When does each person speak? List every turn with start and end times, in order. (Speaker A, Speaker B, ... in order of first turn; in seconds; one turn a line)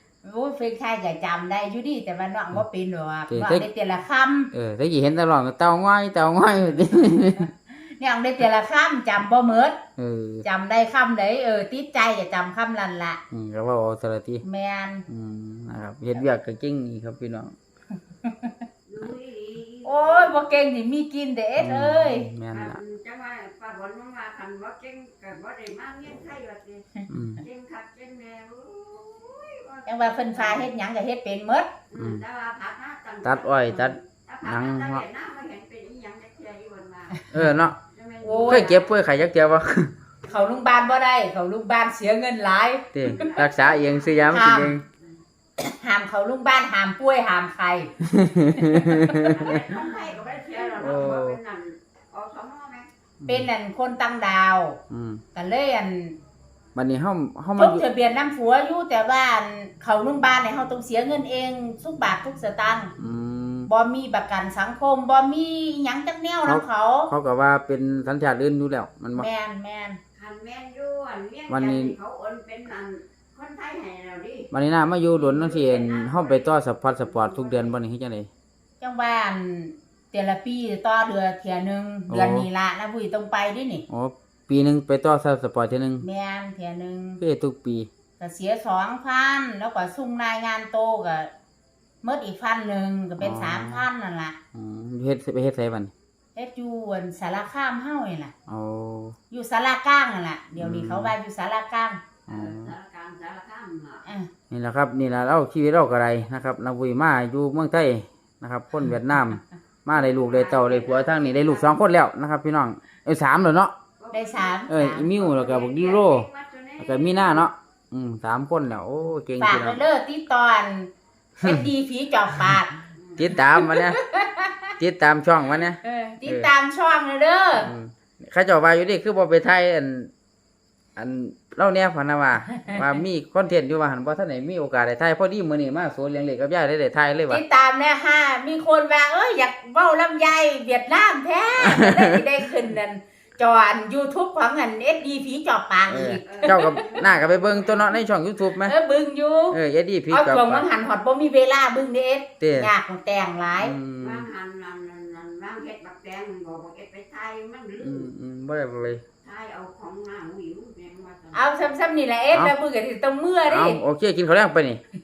Speaker A: 0.2-4.5
Speaker B: 3.3-3.7
Speaker B: 4.5-7.5
Speaker A: 7.7-9.8
Speaker B: 10.0-10.5
Speaker A: 10.4-13.2
Speaker B: 13.3-14.4
Speaker A: 14.4-15.1
Speaker B: 15.1-17.5
Speaker A: 18.2-18.6
Speaker C: 18.9-20.5
Speaker A: 19.9-22.3
Speaker B: 21.6-22.8
Speaker C: 22.5-30.7
Speaker B: 27.1-27.4
Speaker A: 29.9-31.9
Speaker C: 31.9-37.2
Speaker B: 32.0-32.2
Speaker B: 33.2-35.0
Speaker B: 37.3-37.8
Speaker C: 37.9-38.9
Speaker A: 38.2-38.8
Speaker B: 38.4-39.9
Speaker A: 40.2-43.5
Speaker C: 40.3-40.9
Speaker B: 42.9-44.8
Speaker C: 43.0-44.3
Speaker A: 44.3-44.8
Speaker A: 45.6-47.9
Speaker B: 48.0-49.6
Speaker A: 48.5-49.5
Speaker C: 49.2-52.9
Speaker B: 50.8-51.4
Speaker A: 53.3-54.8
Speaker B: 54.9-55.2
Speaker A: 55.4-56.2
Speaker B: 56.8-57.9
Speaker A: 57.6-62.9
Speaker B: 63.0-63.7
Speaker A: 63.7-67.1
Speaker B: 66.5-69.3
Speaker A: 69.2-70.0
Speaker C: 70.2-74.5
Speaker B: 71.5-72.0
Speaker B: 74.5-78.3
Speaker C: 75.1-77.8
Speaker A: 78.8-83.9
Speaker B: 82.1-82.5
Speaker B: 83.9-86.0
Speaker A: 86.0-87.2
Speaker B: 87.2-87.9
Speaker A: 88.2-91.3
Speaker A: 92.0-94.4
Speaker B: 93.2-93.9
Speaker B: 94.5-95.9
Speaker A: 96.4-98.3
Speaker B: 98.5-99.2
Speaker A: 99.3-102.0
Speaker B: 100.6-101.1
Speaker C: 102.3-104.1
Speaker B: 102.3-102.7
Speaker A: 104.0-104.3
Speaker B: 104.5-113.7
Speaker C: 109.9-111.8
Speaker C: 114.0-117.5
Speaker A: 114.1-115.1
Speaker B: 114.7-116.3
Speaker B: 116.8-119.8
Speaker A: 119.4-120.9
Speaker A: 121.4-122.7
Speaker C: 123.0-123.4
Speaker B: 123.2-124.0
Speaker A: 123.4-124.7
Speaker B: 124.8-126.5
Speaker A: 125.8-127.7
Speaker B: 127.6-130.1
Speaker B: 131.0-137.4
Speaker A: 137.3-147.0
Speaker B: 141.6-142.2
Speaker B: 145.9-148.8
Speaker C: 146.0-148.0
Speaker A: 148.5-149.6
Speaker B: 149.5-150.7
Speaker A: 150.1-153.8
Speaker B: 152.4-152.7
Speaker B: 153.6-154.2
Speaker C: 154.0-158.1
Speaker B: 157.8-159.0
Speaker C: 159.2-161.5
Speaker A: 161.3-163.8
Speaker B: 163.4-164.8